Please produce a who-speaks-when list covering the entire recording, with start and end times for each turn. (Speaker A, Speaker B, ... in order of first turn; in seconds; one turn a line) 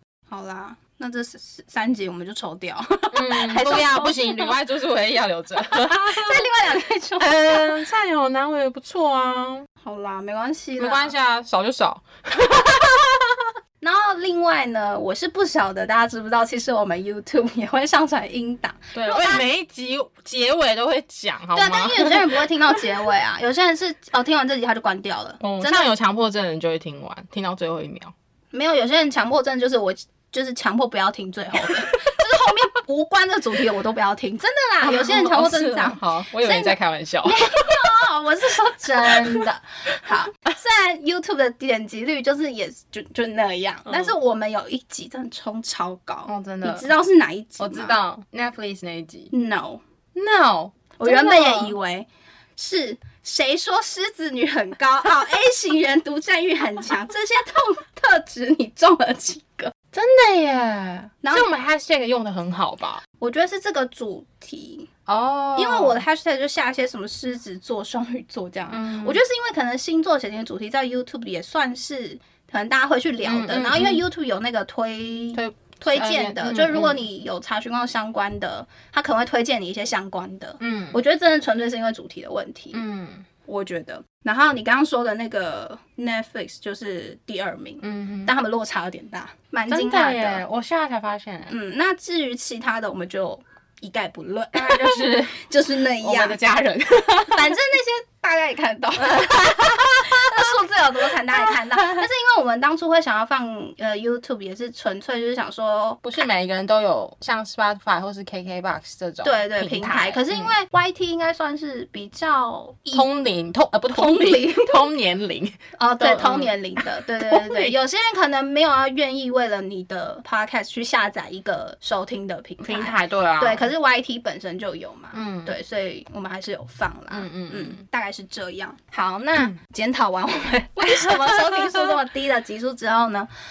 Speaker A: 0.3-4.5
Speaker B: 3.1-6.5
Speaker A: 5.6-7.7
Speaker B: 7.2-9.7
Speaker A: 9.8-11.1
Speaker B: 10.8-13.5
Speaker A: 13.8-19.5
Speaker B: 18.9-22.8
Speaker A: 21.5-25.9
Speaker B: 25.4-28.1
Speaker A: 28.5-48.0
Speaker B: 31.6-32.2
Speaker B: 34.8-37.8
Speaker B: 38.8-39.5
Speaker B: 43.9-44.1
Speaker B: 46.3-46.9
Speaker B: 47.6-49.3
Speaker A: 49.3-49.8
Speaker B: 50.1-51.8
Speaker A: 51.0-59.7
Speaker B: 59.9-63.0
Speaker A: 61.2-61.5
Speaker A: 63.2-64.9
Speaker B: 65.1-66.0
Speaker A: 65.6-82.8
Speaker B: 68.7-69.2
Speaker B: 73.2-74.0
Speaker B: 75.3-77.0
Speaker B: 80.6-81.0
Speaker B: 82.7-83.3
Speaker A: 83.5-90.4
Speaker B: 87.8-88.3
Speaker B: 89.7-91.5
Speaker A: 91.5-96.4
Speaker B: 94.5-95.3
Speaker B: 96.0-97.6
Speaker A: 97.2-106.0
Speaker B: 99.1-100.5
Speaker B: 101.1-102.1
Speaker B: 106.0-110.5
Speaker A: 109.2-113.1
Speaker B: 112.9-117.7
Speaker A: 113.9-114.9
Speaker A: 115.8-133.3
Speaker B: 122.6-123.7
Speaker B: 125.1-125.6
Speaker B: 127.1-127.8
Speaker B: 130.8-131.9